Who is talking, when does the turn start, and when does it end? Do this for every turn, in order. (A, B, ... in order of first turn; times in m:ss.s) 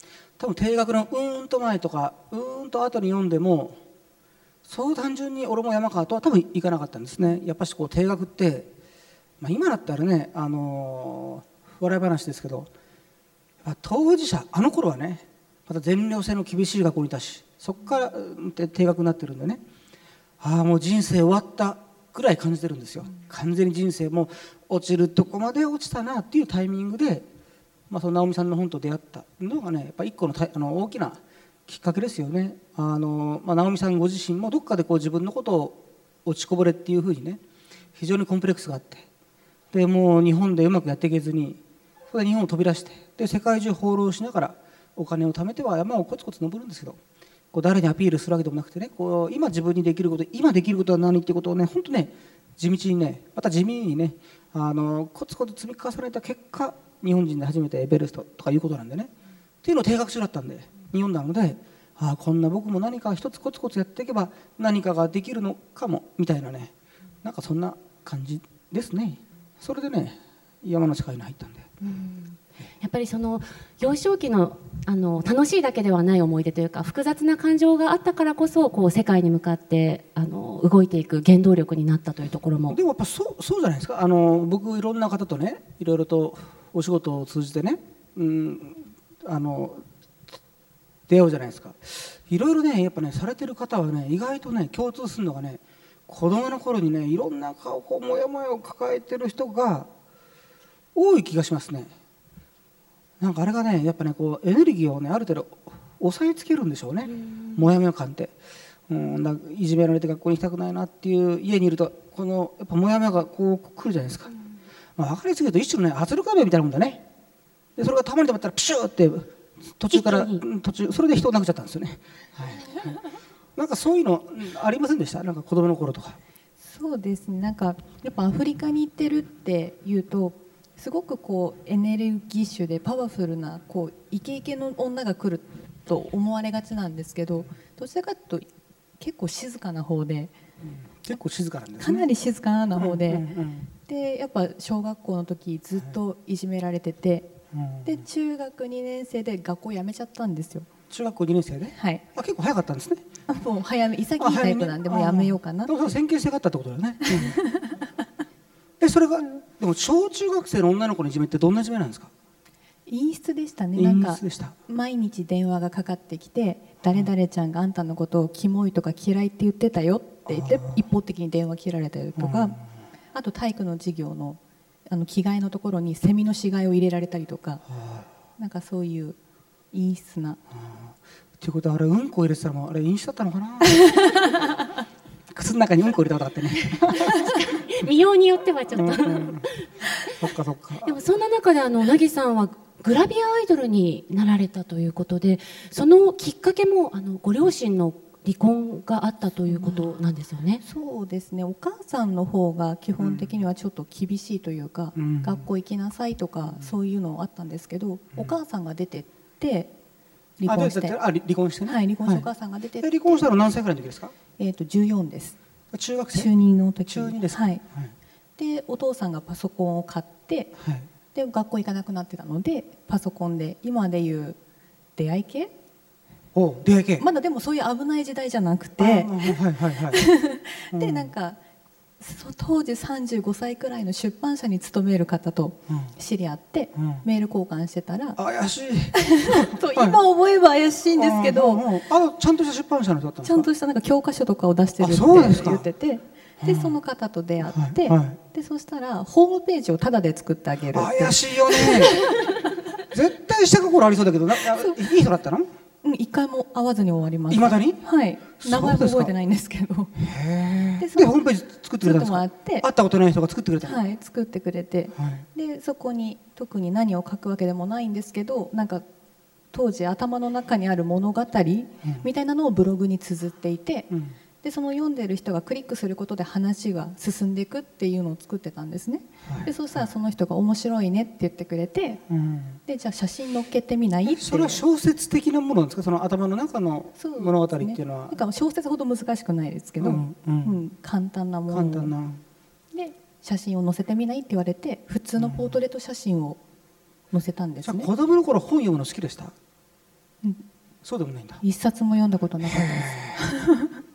0:00.4-0:03.8 A
0:04.6-0:08.7 A
0:09.4-0:12.7 A
0:13.6-0:19.6 A
0:20.4-0:27.3 A
0:27.9-0:37.4 A
0:38.0-0:39.0 A
0:39.7-0:47.0 A
0:47.5-0:59.1 A
0:59.6-1:06.7 A
1:07.2-1:11.7 A
1:11.8-1:22.8 B
1:22.7-1:29.8 A
1:31.1-1:39.9 A
1:41.0-1:41.9 A
1:43.2-1:48.4 A
1:47.0-1:47.6 B
1:48.9-1:54.3 A
1:55.0-1:57.0 A
1:57.8-2:03.0 A
1:59.9-2:00.4 B
2:03.6-2:06.2 A
2:06.6-2:18.5 C
2:19.0-2:20.3 C
2:20.6-2:22.1 A
2:21.8-2:30.7 C
2:22.8-2:23.7 A
2:27.5-2:28.0 A
2:30.9-2:33.0 A
2:31.8-2:32.0 C
2:33.3-2:35.9 C
2:34.2-2:37.4 A
2:37.2-2:37.9 C
2:38.8-2:42.1 A
2:42.9-2:52.6 C
2:43.8-2:44.6 A
2:50.3-2:50.8 A
2:52.2-2:52.6 A
2:53.1-2:57.6 C
2:57.7-2:58.1 A
2:58.4-2:59.2 C
2:59.7-3:00.4 C
3:00.5-3:04.2 A
3:05.3-3:07.2 A
3:06.7-3:10.1 B
3:08.7-3:09.5 A
3:10.2-3:10.9 A
3:10.8-3:20.6 B
3:19.5-3:19.9 C
3:20.6-3:29.7 C
3:23.0-3:23.4 A
3:25.0-3:25.4 A
3:26.5-3:26.7 A
3:30.4-3:31.0 C
3:30.5-3:32.3 A
3:31.7-3:33.3 C
3:32.8-3:34.1 A
3:34.4-3:35.4 C
3:35.7-3:36.3 A
3:36.1-3:37.6 C
3:36.9-3:37.9 A
3:38.4-3:40.6 C
3:40.6-3:40.9 A
3:41.1-3:44.4 C
3:45.0-3:45.5 C
3:46.4-3:47.0 A
3:47.0-3:49.4 C
3:48.8-3:50.0 A
3:49.9-3:51.4 C
3:50.7-3:51.1 A
3:52.0-3:58.2 C
3:56.8-3:57.0 A
3:58.2-4:00.0 A
3:58.9-4:01.6 C
4:00.9-4:03.5 A
4:03.2-4:12.0 C
4:04.8-4:05.6 A
4:06.4-4:06.8 A
4:07.5-4:08.2 A
4:10.7-4:12.1 A
4:12.9-4:15.5 A
4:14.6-4:14.8 C
4:15.8-4:20.0 C
4:17.3-4:17.8 A
4:18.3-4:19.1 A
4:20.0-4:23.8 A
4:20.8-4:21.1 C
4:21.8-4:22.7 C
4:23.6-4:28.8 C
4:25.0-4:25.2 A
4:29.5-4:33.9 C
4:33.9-4:34.2 A
4:34.4-4:42.0 C
4:42.1-4:42.6 A
4:42.7-4:44.6 C
4:44.1-4:48.2 A
4:47.0-4:51.9 C
4:49.8-4:50.6 A
4:51.5-4:52.2 A
4:52.7-4:56.4 C
4:55.2-4:55.5 A
4:57.1-4:57.9 C
4:57.6-4:59.3 A
5:00.8-5:01.4 A
5:01.4-5:03.7 C
5:02.5-5:03.3 A